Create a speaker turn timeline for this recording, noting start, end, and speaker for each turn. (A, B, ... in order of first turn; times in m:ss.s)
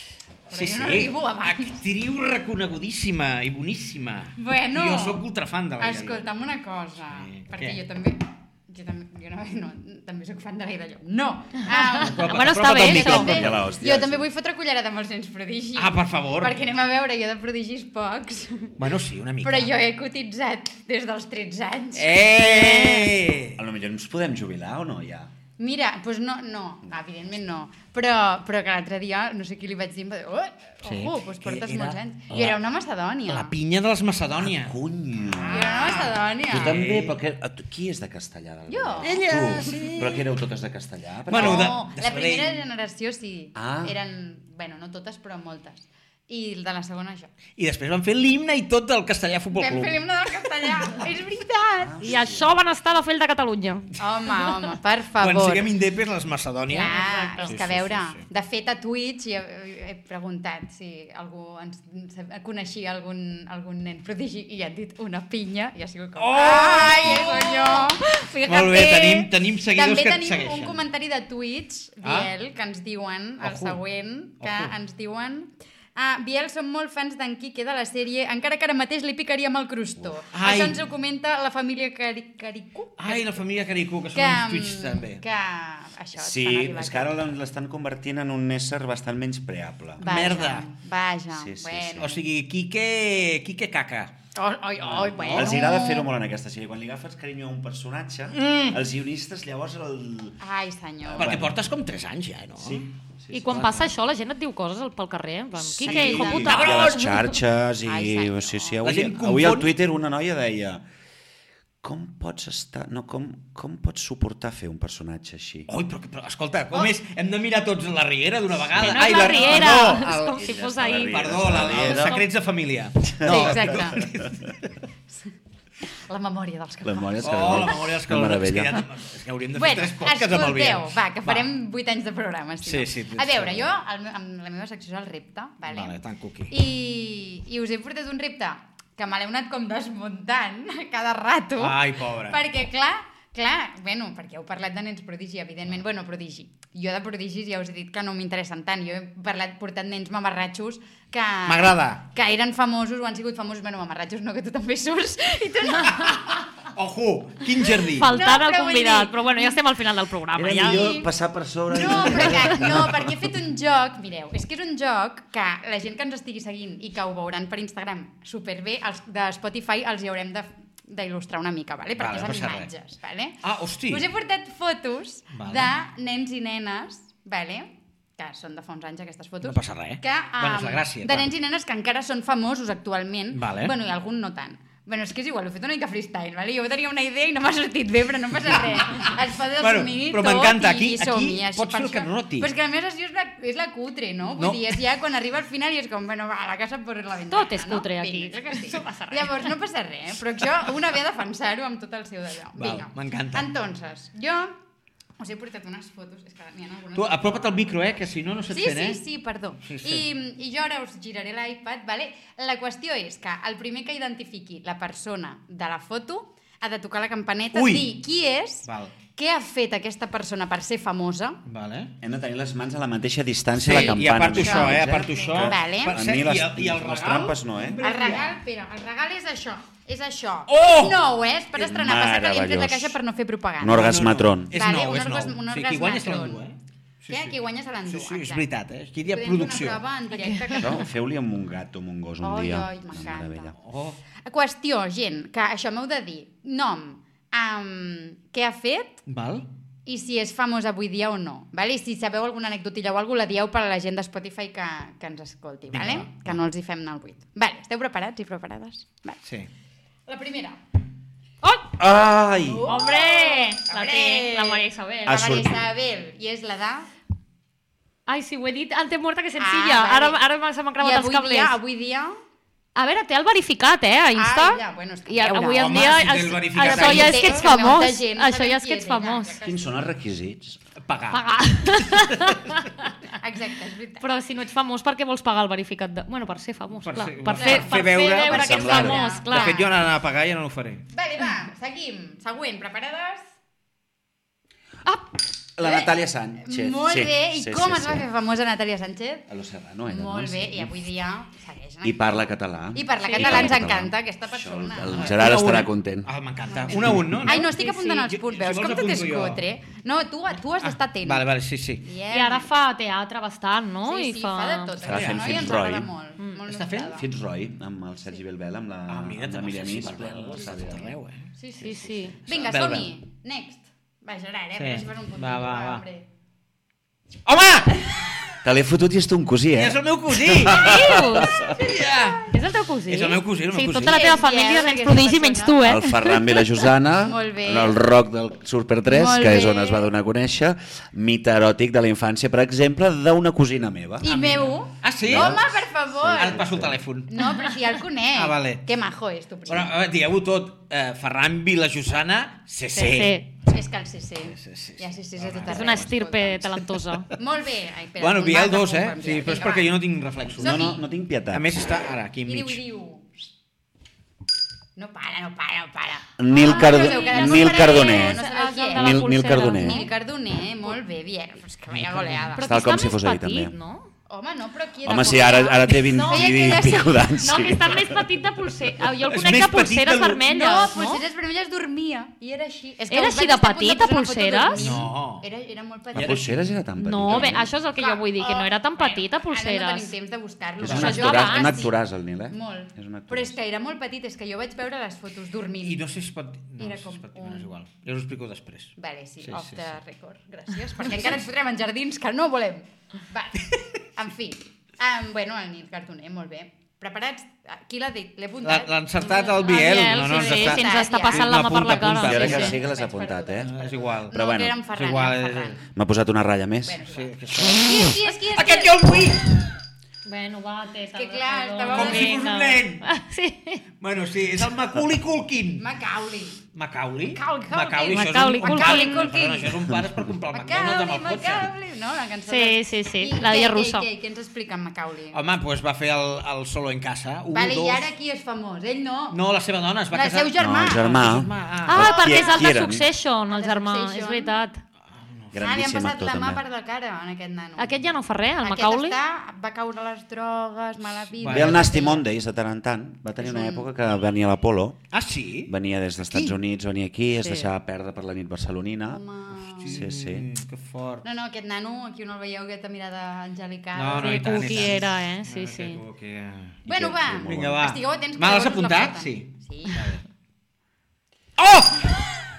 0:00.5-0:01.8 A
0:00.5-0:06.2 B
0:04.4-0:05.2 A
0:05.8-0:18.7 A
0:07.1-0:07.8 B
0:11.9-0:13.5 B
0:12.2-0:13.4 C
0:13.0-0:14.2 D
0:15.7-0:16.6 B
0:18.8-0:19.8 B
0:19.4-0:22.2 A
0:21.9-0:23.6 B
0:22.5-0:23.1 C
0:23.6-0:25.3 D
0:25.6-0:33.5 A
0:30.8-0:32.6 B
0:33.2-0:34.7 B
0:34.4-0:35.9 D
0:35.3-0:37.2 B
0:35.5-0:36.8 A
0:36.5-0:41.7 D
0:38.7-0:39.2 A
0:39.0-0:40.2 B
0:41.3-0:42.6 B
0:41.3-0:47.3 A
0:43.6-0:43.9 D
0:47.6-0:50.0 B
0:49.5-0:52.0 A
0:51.8-0:52.5 D
0:52.0-0:54.4 C
0:54.0-0:55.7 A
0:55.2-0:58.2 B
0:56.7-1:23.4 A
0:56.9-0:57.6 C
1:06.2-1:10.8 B
1:12.0-1:12.3 B
1:13.4-1:13.8 B
1:14.4-1:14.7 B
1:20.3-1:20.8 B
1:23.0-1:25.2 B
1:24.1-1:27.2 A
1:26.2-1:30.3 D
1:30.0-1:32.2 A
1:30.0-1:30.7 B
1:31.3-1:32.1 D
1:32.0-1:34.1 B
1:34.3-1:36.1 A
1:34.8-1:40.4 D
1:35.0-1:35.5 B
1:38.3-1:38.8 B
1:40.4-1:41.4 A
1:41.0-1:41.6 D
1:41.2-1:42.9 B
1:42.6-1:43.9 D
1:43.3-1:47.2 C
1:45.8-1:50.8 D
1:45.8-1:46.7 A
1:45.9-1:47.2 B
1:47.8-1:48.8 A
1:48.8-1:49.7 B
1:51.8-1:55.7 D
1:55.7-2:00.4 B
1:58.7-2:02.2 D
1:58.8-2:02.2 C
2:01.1-2:04.7 B
2:03.2-2:04.0 D
2:03.2-2:04.0 A
2:06.1-2:07.7 A
2:06.8-2:08.8 D
2:07.2-2:11.5 B
2:09.5-2:16.0 A
2:12.6-2:13.7 B
2:15.7-2:16.5 B
2:16.5-2:36.4 A
2:21.6-2:22.4 B
2:31.4-2:32.0 B
2:36.0-2:38.1 B
2:38.0-2:39.6 A
2:38.0-2:40.9 C
2:40.4-2:43.2 D
2:40.5-2:41.1 A
2:41.7-3:24.6 A
2:42.2-2:42.5 C
2:52.0-2:52.7 B
2:53.4-2:54.0 B
2:55.3-2:55.7 B
2:59.4-3:01.3 B
3:03.3-3:03.7 B
3:08.5-3:12.5 B
3:14.4-3:14.8 B
3:17.3-3:19.5 C
3:22.5-3:23.5 B
3:25.2-3:27.7 A
3:26.9-3:29.0 B
3:28.5-3:41.4 A
3:29.6-3:30.1 B
3:37.5-3:38.0 B
3:38.6-3:38.9 B
3:41.4-3:41.9 B
3:42.0-3:47.8 D
3:43.5-3:48.4 B
3:43.7-3:46.0 A
3:47.8-3:53.8 A
3:50.5-3:51.0 B
3:51.5-3:53.0 D
3:53.6-3:54.6 D
3:53.7-3:59.8 B
3:54.5-3:56.4 A
3:57.1-3:58.4 A
3:59.0-4:00.9 A
4:00.2-4:00.7 C
4:00.6-4:03.5 D
4:02.2-4:03.6 A
4:03.6-4:04.0 B
4:04.2-4:09.0 A
4:09.1-4:09.5 B
4:09.8-4:19.2 A
4:15.7-4:16.4 B
4:19.2-4:19.5 B
4:20.1-4:20.6 A
4:21.8-4:22.7 D
4:22.4-4:26.9 A
4:22.7-4:25.3 C
4:25.0-4:25.6 D
4:28.1-4:31.6 C
4:29.4-4:30.2 A
4:30.8-4:32.2 A
4:32.8-4:39.4 C
4:34.1-4:39.8 A
4:35.5-4:37.5 B
4:39.4-4:40.6 D
4:40.8-4:41.2 B
4:41.1-4:42.9 C
4:41.9-4:42.3 B
4:43.2-4:44.0 A
4:44.0-4:49.6 C
4:46.8-4:48.4 B
4:47.4-4:49.7 A
4:48.3-4:49.1 D
4:49.2-4:50.9 B
4:50.9-4:53.2 A
4:55.6-4:58.0 D
4:55.6-4:55.9 A
4:56.4-4:59.3 A
4:59.3-5:00.8 D
4:59.8-5:05.1 A
5:01.8-5:06.1 D
5:03.1-5:03.6 C
5:04.9-5:07.5 B
5:06.5-5:11.3 A
5:07.3-5:08.1 C
5:08.1-5:09.4 B
5:10.6-5:11.8 B
5:11.8-5:12.5 A
5:12.1-5:14.8 C
5:13.8-5:17.1 A
5:14.8-5:15.9 D
5:14.8-5:15.5 B
5:16.5-5:16.9 B
5:16.9-5:20.9 D
5:18.9-5:21.3 B
5:21.4-5:22.2 C
5:22.2-5:22.9 B
5:22.2-5:26.0 A
5:24.6-5:25.8 B
5:27.2-5:28.0 B
5:28.4-5:31.5 D
5:29.6-5:30.9 B
5:30.5-5:31.3 C
5:31.4-5:32.3 B
5:32.3-5:36.6 C
5:32.9-5:34.0 B
5:33.8-5:35.6 A
5:35.6-5:44.1 D
5:37.0-5:37.8 A
5:38.8-5:39.9 A
5:44.0-5:46.4 A
5:44.0-5:45.4 B
5:45.0-5:45.4 D
5:46.0-5:46.8 D
5:46.0-5:47.4 B
5:47.1-5:49.7 A
5:48.1-5:48.6 B
5:49.4-5:53.2 B
5:52.7-5:53.3 C
5:53.4-5:59.8 A
5:54.2-5:55.9 B
5:55.5-5:57.1 C
5:58.0-6:02.6 B
6:00.4-6:00.8 A
6:00.4-6:01.8 D
6:02.2-6:03.1 A
6:04.8-6:12.8 A
6:06.2-6:09.8 D
6:06.4-6:09.9 C
6:11.7-6:12.3 B
6:12.4-6:13.9 C
6:12.4-6:13.5 D
6:14.1-6:17.2 A
6:14.8-6:18.1 D
6:15.8-6:16.5 C
6:17.1-6:21.0 C
6:19.1-6:20.2 B
6:20.3-6:26.4 A
6:22.9-6:24.6 C
6:24.5-6:25.3 B
6:25.9-6:26.3 B
6:25.9-6:27.5 D
6:26.8-6:29.9 C
6:27.1-6:31.7 A
6:30.6-6:33.4 D
6:30.6-6:30.9 B
6:30.8-6:31.6 C
6:32.3-6:35.8 A
6:35.6-6:39.8 B
6:36.6-6:37.5 A
6:38.8-6:48.7 A
6:48.4-6:52.6 B
6:49.0-6:52.5 C
6:50.1-6:55.6 A
6:52.0-6:53.5 D
6:53.4-6:54.2 B
6:54.1-6:54.6 D
6:54.7-6:55.6 B
6:55.7-6:56.9 D
6:56.6-6:58.9 A
6:56.9-6:59.5 B
7:00.0-7:03.6 C
7:00.9-7:02.2 A
7:01.7-7:02.9 B
7:03.8-7:05.7 B
7:05.6-7:06.4 A
7:06.5-7:11.5 B
7:07.1-7:09.6 A
7:07.9-7:09.1 C
7:09.6-7:10.1 D
7:10.3-7:15.2 A
7:12.3-7:13.9 C
7:15.1-7:17.9 B
7:17.3-7:19.2 A
7:19.1-7:21.8 B
7:19.9-7:21.2 A
7:20.4-7:22.8 D
7:21.7-7:24.6 C
7:21.7-7:22.6 A
7:23.3-7:24.3 A
7:24.9-7:25.4 B
7:25.3-7:26.4 D
7:25.4-7:27.8 A
7:27.6-7:29.0 C
7:28.4-7:32.0 A
7:31.2-7:31.7 B
7:31.2-7:34.8 D
7:33.2-7:33.7 A
7:34.9-7:35.5 B
7:35.4-7:39.0 D
7:37.2-7:37.5 C
7:38.9-7:39.8 A
7:39.6-7:41.0 B
7:39.6-7:40.3 D
7:41.0-7:44.8 A
7:43.7-7:46.6 B
7:44.0-7:45.8 C
7:46.6-7:47.6 D
7:46.7-7:49.9 A
7:47.2-7:50.0 B
7:51.4-7:52.1 B